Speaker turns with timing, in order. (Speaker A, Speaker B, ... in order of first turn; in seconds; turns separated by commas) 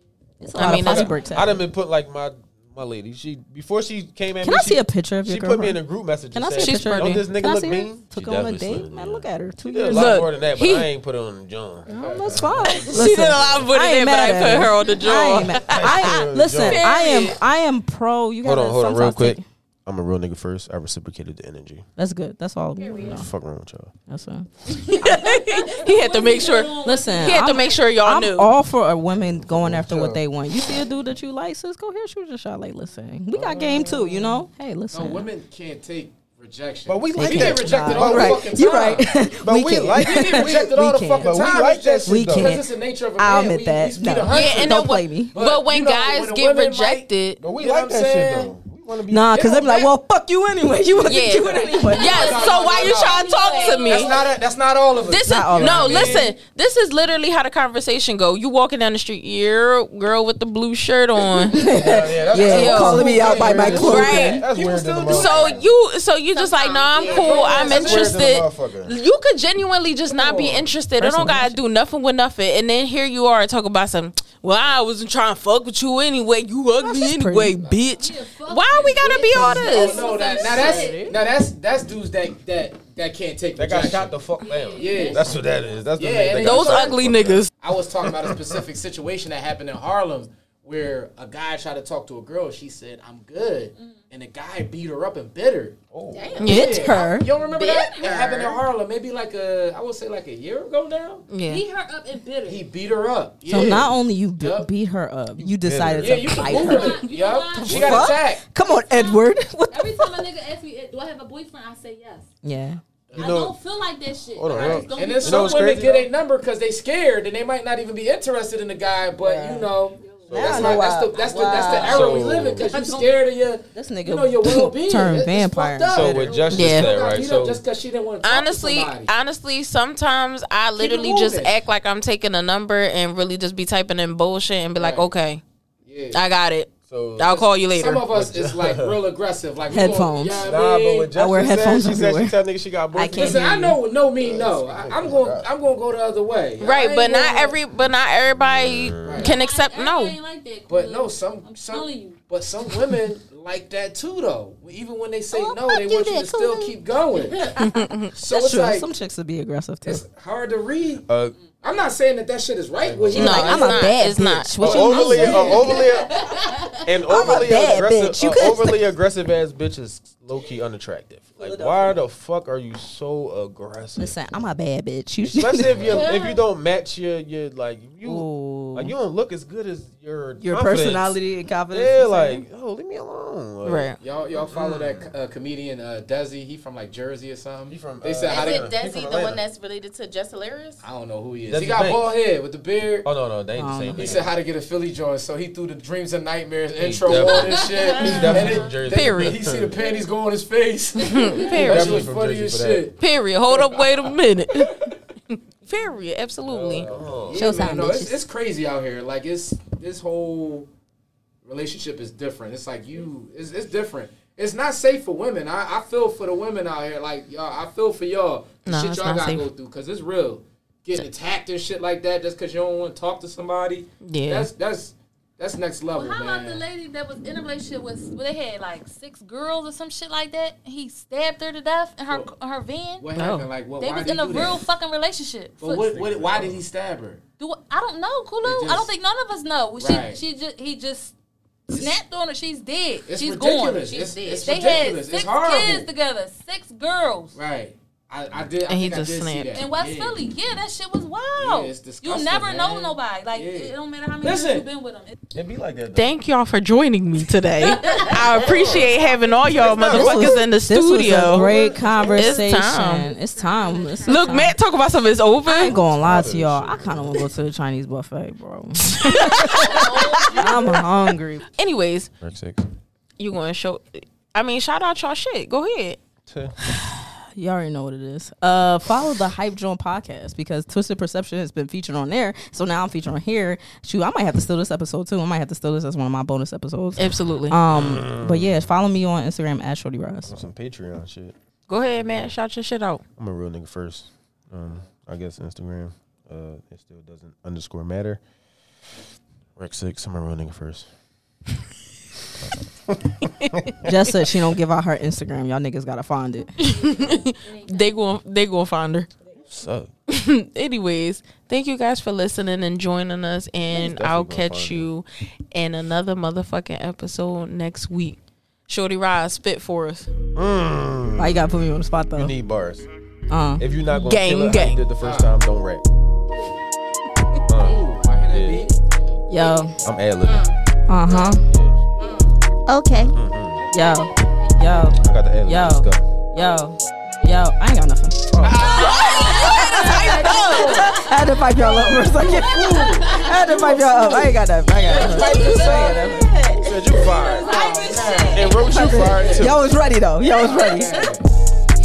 Speaker A: 0.4-1.6, Speaker B: 0.5-1.1, Speaker C: 0.6-13.7, Speaker A: 4.4-5.8, Speaker A: 6.3-10.2, Speaker B: 6.6-7.2, Speaker B: 9.9-10.9, Speaker D: 11.9-12.9, Speaker A: 11.9-19.4, Speaker B: 12.7-17.4, Speaker C: 15.5-16.9, Speaker C: 18.4-21.9, Speaker A: 22.0-23.3, Speaker E: 22.8-23.2, Speaker C: 22.9-23.9, Speaker A: 24.1-25.6, Speaker B: 24.7-28.5, Speaker F: 25.6-27.7, Speaker A: 26.8-35.3, Speaker C: 29.4-30.2, Speaker C: 33.3-34.1, Speaker D: 34.9-39.1, Speaker C: 36.9-38.5, Speaker A: 37.1-41.4, Speaker C: 39.3-42.6, Speaker D: 40.0-48.5, Speaker A: 42.0-45.3, Speaker B: 44.3-47.4, Speaker C: 47.4-49.4, Speaker A: 49.1-52.2, Speaker D: 49.3-49.9, Speaker D: 50.9-53.3, Speaker B: 51.0-54.2, Speaker E: 51.1-54.3, Speaker F: 51.9-52.5, Speaker F: 53.3-54.1, Speaker D: 53.8-56.3, Speaker B: 55.0-61.8, Speaker A: 55.2-56.2, Speaker F: 55.9-56.1, Speaker A: 61.4-64.4, Speaker C: 61.5-65.6, Speaker B: 62.3-64.4, Speaker D: 62.5-65.6, Speaker B: 65.0-80.2, Speaker E: 66.3-67.9, Speaker F: 66.8-67.9, Speaker D: 67.1-68.0, Speaker C: 67.5-68.9, Speaker D: 70.1-70.6, Speaker A: 71.0-71.6, Speaker A: 76.8-77.7, Speaker F: 78.0-81.1, Speaker A: 79.3-81.2, Speaker D: 79.4-84.2, Speaker C: 83.5-87.5, Speaker F: 84.4-85.4, Speaker D: 84.8-85.3, Speaker D: 86.0-87.0, Speaker B: 86.4-87.5, Speaker D: 87.6-95.8, Speaker C: 88.0-88.6, Speaker F: 93.8-94.0, Speaker C: 95.9-96.5, Speaker E: 96.1-98.6, Speaker D: 96.3-101.3, Speaker B: 96.4-96.8, Speaker A: 96.5-97.3, Speaker B: 101.3-101.6, Speaker F: 101.4-102.7, Speaker D: 102.4-104.7, Speaker A: 103.5-110.3, Speaker C: 105.4-106.6, Speaker D: 106.0-108.4, Speaker F: 106.5-108.2, Speaker C: 107.7-108.1, Speaker F: 108.9-112.3, Speaker A: 112.4-112.8, Speaker D: 113.1-113.4, Speaker C: 113.1-113.5, Speaker F: 113.2-115.8, Speaker C: 114.3-116.1, Speaker D: 114.5-129.1, Speaker A: 119.2-119.7, Speaker F: 120.0-120.5, Speaker C: 120.2-120.8, Speaker A: 120.3-122.3, Speaker F: 121.5-123.1, Speaker C: 121.7-122.7, Speaker A: 123.7-126.5, Speaker C: 125.9-127.6, Speaker F: 126.2-126.6, Speaker B: 126.5-126.9, Speaker B: 128.2-135.4, Speaker D: 130.8-131.6, Speaker D: 134.8-135.1, Speaker D: 135.8-136.2, Speaker B: 136.1-138.1, Speaker C: 136.9-137.5, Speaker D: 137.6-141.1, Speaker C: 138.1-139.0, Speaker A: 139.7-140.5, Speaker C: 140.4-145.5, Speaker A: 141.1-142.4, Speaker A: 142.9-143.8, Speaker D: 143.1-147.6, Speaker B: 146.6-150.2, Speaker C: 148.3-149.3, Speaker D: 149.0-149.3, Speaker F: 149.2-152.2, Speaker D: 150.7-157.6, Speaker A: 155.3-156.7, Speaker B: 157.6-158.1, Speaker D: 158.1-158.9, Speaker A: 158.3-160.0, Speaker D: 159.8-161.1, Speaker C: 161.1-161.3, Speaker D: 161.6-163.9, Speaker C: 162.8-163.6, Speaker B: 163.1-164.7, Speaker A: 163.1-165.8, Speaker C: 164.6-174.2, Speaker F: 164.7-166.8, Speaker A: 167.1-168.8, Speaker A: 171.4-172.0, Speaker A: 174.0-176.0, Speaker C: 175.2-181.2, Speaker F: 175.9-176.4, Speaker A: 178.0-178.9, Speaker A: 180.4-182.4, Speaker C: 181.7-183.9, Speaker B: 183.6-184.0, Speaker D: 184.0-188.7, Speaker C: 184.5-185.1, Speaker C: 187.7-189.4, Speaker E: 188.3-190.8, Speaker D: 190.8-193.1, Speaker C: 191.5-192.1, Speaker C: 193.0-194.3, Speaker A: 193.6-194.2, Speaker D: 193.9-204.9, Speaker C: 196.8-199.8, Speaker F: 197.1-198.7, Speaker B: 198.9-199.4, Speaker F: 201.0-201.8, Speaker B: 201.0-202.1, Speaker C: 201.6-202.9, Speaker B: 203.0-206.9, Speaker C: 206.5-207.5, Speaker D: 206.5-210.7, Speaker A: 207.3-208.2, Speaker D: 211.4-226.6, Speaker B: 218.6-219.5, Speaker B: 224.0-224.5, Speaker F: 225.9-233.1, Speaker D: 233.0-234.6, Speaker B: 233.1-233.5, Speaker F: 233.8-236.0, Speaker D: 235.6-237.2, Speaker C: 235.9-236.6, Speaker F: 237.4-241.1, Speaker D: 238.4-238.9, Speaker D: 239.8-240.2, Speaker F: 241.7-247.4, Speaker D: 243.0-245.9, Speaker D: 247.3-250.3, Speaker B: 248.7-249.6, Speaker F: 249.5-255.2, Speaker D: 251.4-254.7, Speaker C: 255.3-256.1, Speaker B: 255.9-261.5, Speaker F: 257.6-258.7, Speaker C: 258.4-258.9, Speaker C: 259.4-260.4, Speaker A: 259.9-264.5, Speaker C: 261.1-262.5, Speaker B: 262.1-263.1, Speaker F: 263.3-264.3, Speaker B: 264.0-265.7, Speaker A: 265.4-271.4, Speaker C: 265.7-267.3, Speaker B: 268.9-270.5, Speaker F: 269.5-270.6, Speaker B: 271.5-272.1, Speaker C: 272.2-272.6, Speaker B: 273.2-276.0, Speaker C: 276.2-276.5, Speaker A: 276.6-290.5, Speaker B: 287.0-287.6, Speaker C: 287.7-288.7, Speaker C: 290.2-291.3, Speaker B: 291.7-293.0, Speaker C: 292.0-292.3, Speaker C: 293.2-298.2, Speaker C: 299.6-300.9, Speaker C: 302.3-303.8, Speaker B: 303.2-303.7, Speaker A: 303.8-306.5, Speaker B: 306.6-309.1, Speaker F: 306.7-308.1, Speaker C: 309.5-309.9, Speaker B: 310.1-320.1, Speaker C: 313.7-314.9, Speaker C: 320.3-321.5, Speaker A: 321.2-322.3, Speaker C: 322.1-322.9, Speaker A: 323.3-323.6, Speaker C: 323.6-325.8, Speaker B: 324.0-324.8, Speaker D: 325.0-325.3, Speaker C: 327.5-328.7, Speaker D: 327.6-328.8, Speaker E: 329.1-329.6, Speaker A: 329.3-329.8, Speaker C: 329.8-330.5, Speaker E: 330.2-330.5, Speaker A: 330.9-331.4, Speaker C: 331.1-331.8, Speaker E: 332.0-332.3, Speaker A: 332.7-333.1, Speaker C: 333.1-333.7, Speaker F: 333.7-334.9, Speaker A: 333.7-338.4, Speaker C: 335.0-336.0, Speaker C: 338.3-338.9, Speaker D: 338.4-341.1, Speaker B: 338.6-340.3, Speaker F: 338.8-340.1, Speaker A: 339.2-346.6, Speaker D: 341.6-344.1, Speaker F: 342.4-343.9, Speaker F: 344.9-346.1, Speaker C: 344.9-345.9, Speaker E: 344.9-348.6, Speaker D: 344.9-345.9, Speaker C: 346.6-347.5, Speaker F: 347.2-349.4, Speaker D: 347.4-349.5, Speaker C: 348.3-349.6, Speaker A: 348.5-351.1, Speaker D: 350.4-351.3